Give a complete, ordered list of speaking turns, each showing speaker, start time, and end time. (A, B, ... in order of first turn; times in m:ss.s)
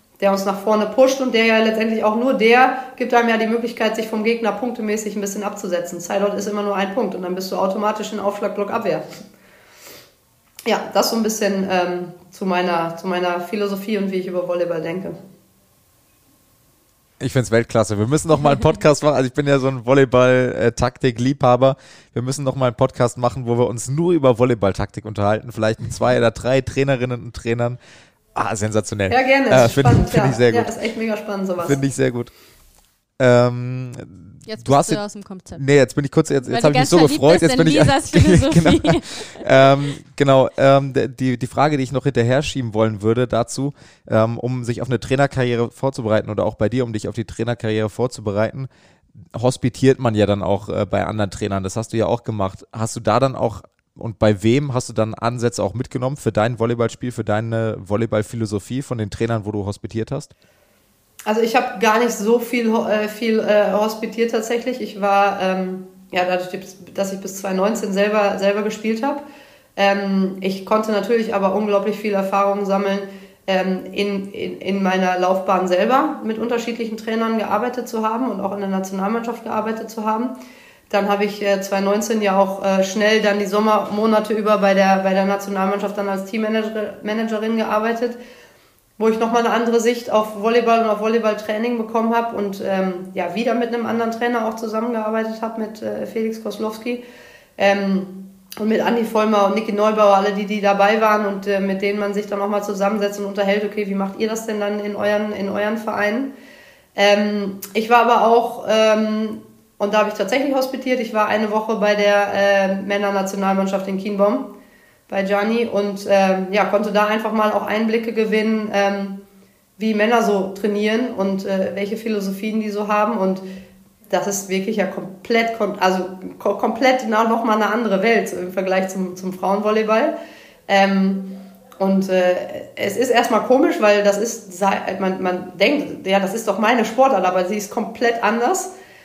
0:00.2-0:09.0 A
0:10.7-0:15.2 A
0:17.2-0:27.8 B
0:28.4-0:30.7 B
0:29.1-0:31.8 A
0:31.6-0:32.3 B
0:33.2-0:35.0 B
0:34.5-0:35.6 C
0:35.6-0:48.7 B
0:36.4-0:39.5 C
0:49.3-1:00.3 B
1:01.3-1:09.2 A
1:09.8-1:20.4 A
1:20.9-1:28.2 A
1:29.0-1:37.0 A
1:37.6-1:46.3 A
1:47.0-1:54.5 A
1:55.1-1:59.2 A
1:59.8-2:03.4 A
2:04.1-2:10.1 A
2:10.7-2:18.7 A